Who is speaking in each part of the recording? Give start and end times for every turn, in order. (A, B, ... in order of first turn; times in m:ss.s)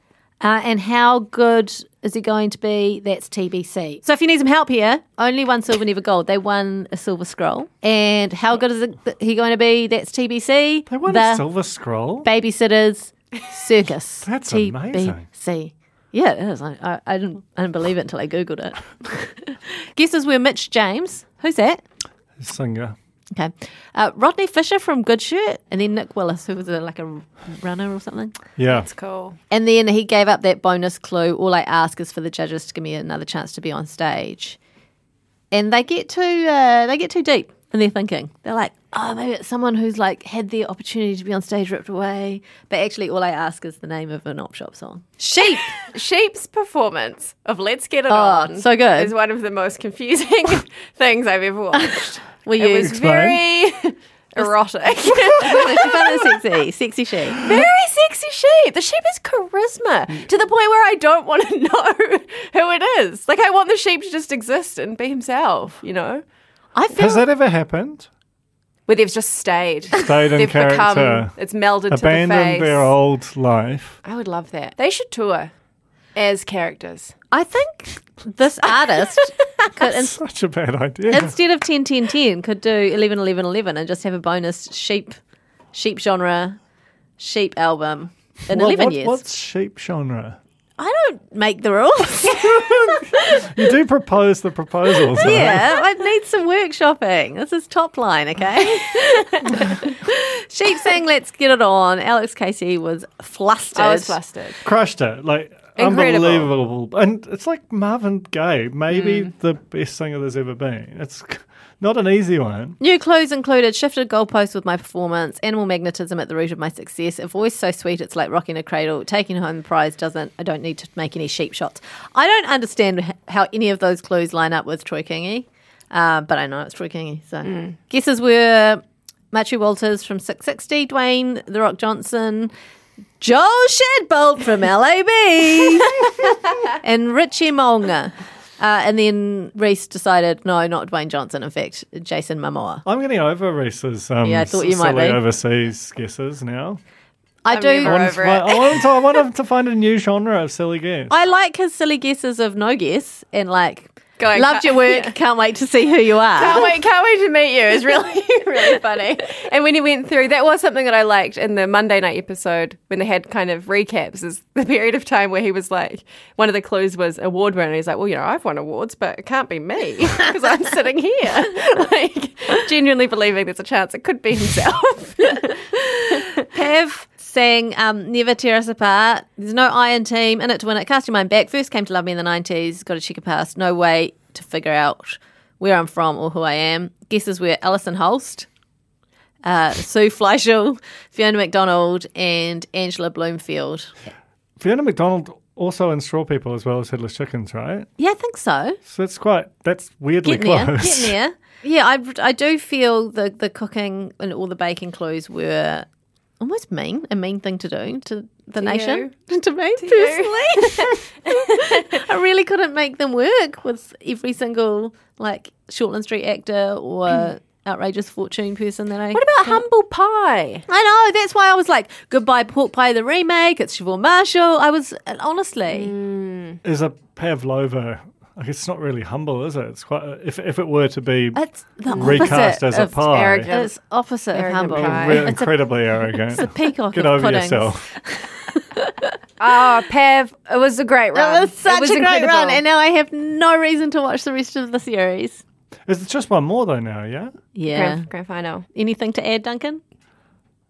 0:00.4-0:11.4 A
0:10.9-0:12.3 B
0:12.2-0:21.8 A
0:14.2-0:15.3 B
0:22.4-0:23.0 B
0:23.4-0:28.4 A
0:28.6-0:28.9 B
0:28.7-0:29.4 C
0:29.5-0:34.6 A
0:35.5-0:45.8 A
0:45.8-0:56.4 C
0:48.1-0:49.1 A
0:51.8-0:53.0 A
0:52.8-0:53.4 B
0:55.2-0:57.5 A
0:57.4-1:06.2 C
1:06.8-1:07.2 A
1:07.0-1:08.1 B
1:08.9-1:12.9 C
1:09.9-1:11.3 B
1:11.9-1:14.0 B
1:14.0-1:15.5 C
1:16.2-1:17.1 C
1:17.3-1:20.2 A
1:18.8-1:19.3 C
1:20.0-1:21.4 B
1:21.1-1:25.2 A
1:25.7-1:26.6 A
1:27.2-1:29.2 A
1:28.5-1:30.4 B
1:30.8-1:33.4 A
1:32.3-1:35.7 B
1:35.2-1:44.2 A
1:43.7-1:44.6 C
1:44.6-1:52.8 B
1:45.8-1:46.5 C
1:48.9-1:49.3 C
1:52.8-2:12.5 A
2:13.2-2:22.8 A
2:22.9-2:26.8 B
2:24.2-2:25.2 A
2:27.4-2:28.1 A
2:27.5-2:28.8 C
2:27.8-2:31.1 B
2:31.1-2:36.7 A
2:34.2-2:35.2 C
2:36.3-2:56.4 C
2:55.8-3:08.5 A
3:09.4-3:14.0 A
3:14.6-3:17.9 B
3:18.0-3:18.8 A
3:18.9-3:21.2 B
3:20.2-3:25.9 A
3:26.4-3:39.6 A
3:28.6-3:29.1 C
3:29.8-3:32.0 C
3:39.1-3:40.6 C
3:40.7-3:45.9 A
3:45.7-3:46.6 C
3:46.6-3:51.4 B
3:51.4-3:52.9 A
3:51.9-3:53.7 C
3:52.0-3:53.5 B
3:53.5-3:59.1 A
3:54.3-3:55.3 C
3:54.8-3:57.9 B
3:59.4-4:02.6 C
4:01.1-4:05.4 A
4:05.9-4:07.4 B
4:07.6-4:08.1 A
4:07.7-4:08.7 C
4:08.7-4:09.8 A